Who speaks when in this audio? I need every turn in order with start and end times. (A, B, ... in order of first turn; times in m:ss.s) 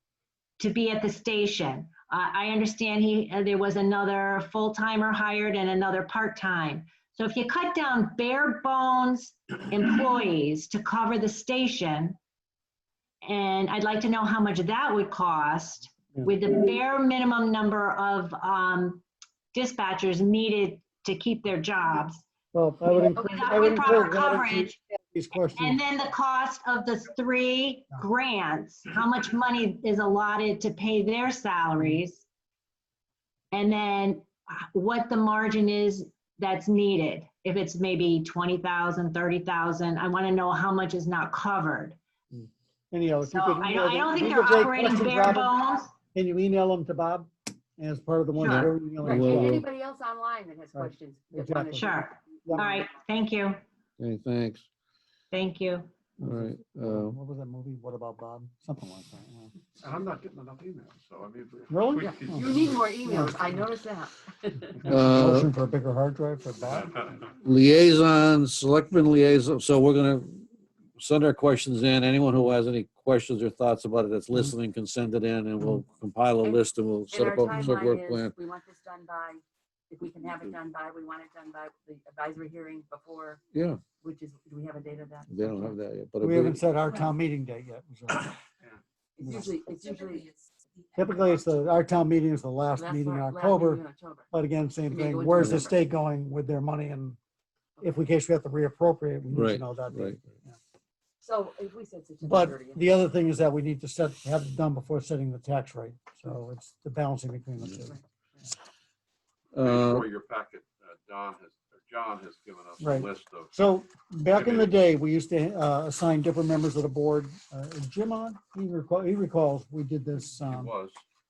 0:00.6-0:12.2 A
0:13.2-0:22.2 A
0:22.5-0:25.8 B
0:22.9-0:24.8 A
0:23.2-0:23.8 C
0:25.6-0:32.2 A
0:33.5-0:42.0 A
0:42.3-0:49.6 B
0:43.2-0:45.9 A
0:48.4-0:48.7 A
0:48.4-0:49.6 D
0:49.0-0:52.2 C
0:50.7-0:51.9 B
0:51.8-0:53.6 A
0:52.4-0:52.8 B
0:54.0-0:54.7 D
0:55.3-0:55.9 A
0:56.2-0:59.5 B
0:56.2-0:57.2 D
0:59.8-1:02.4 E
1:01.7-1:02.5 B
1:02.0-1:04.8 C
1:03.0-1:03.6 B
1:04.8-1:07.1 B
1:04.9-1:05.5 D
1:07.4-1:10.5 D
1:11.0-1:18.4 D
1:16.4-1:23.4 C
1:23.5-1:23.8 D
1:24.0-1:25.7 C
1:25.3-1:26.6 D
1:26.2-1:28.3 B
1:29.2-1:30.4 C
1:31.0-1:37.2 B
1:32.8-1:34.3 C
1:34.9-1:35.9 C
1:35.4-1:35.6 D
1:37.8-1:40.6 B
1:39.3-1:40.2 D
1:41.2-1:42.9 C
1:42.2-1:48.0 B
1:49.5-1:50.1 D
1:49.6-1:53.5 E
1:52.8-2:00.7 B
1:54.3-1:54.8 E
2:00.5-2:01.0 E